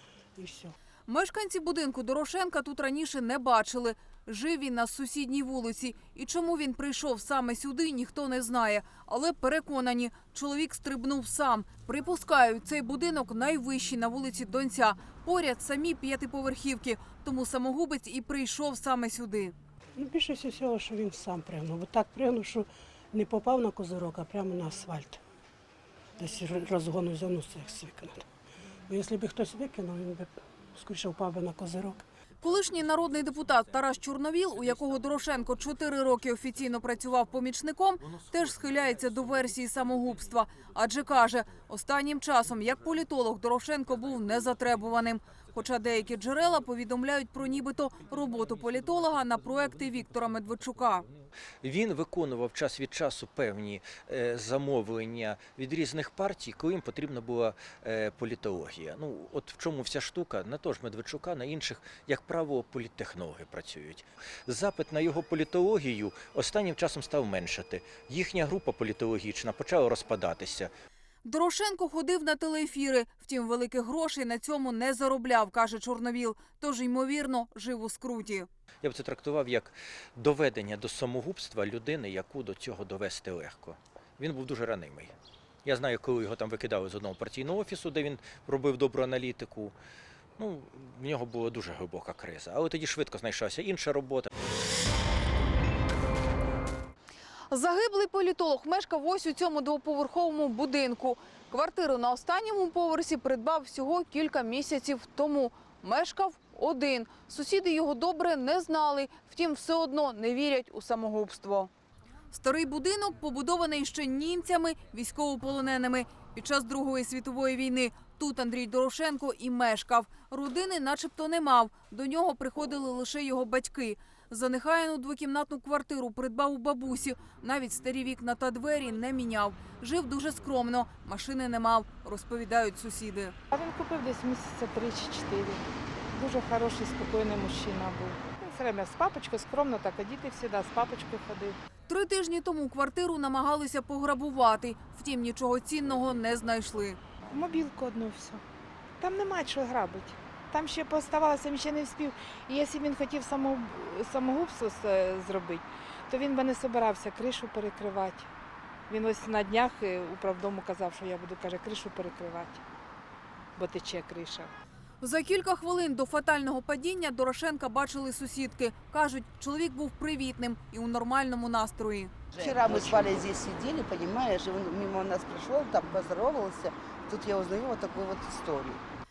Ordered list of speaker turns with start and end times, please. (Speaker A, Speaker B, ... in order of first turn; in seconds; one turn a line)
Speaker A: 0.4-0.7
Speaker B: 1.1-19.5
Speaker A: 20.0-25.2
Speaker A: 26.2-28.2
Speaker A: 28.9-32.0
Speaker B: 32.4-51.1
Speaker C: 51.6-70.7
Speaker B: 71.2-78.5
Speaker C: 78.8-89.7
Speaker C: 90.4-94.3
Speaker B: 97.5-111.7
Speaker B: 112.3-133.3
Speaker D: 133.5-141.6
Speaker B: 141.9-147.0
Speaker D: 147.3-148.4
Speaker D: 149.0-158.3
Speaker D: 158.9-162.6
Speaker D: 163.6-164.5
Speaker B: 165.0-172.1
Speaker E: 172.3-178.8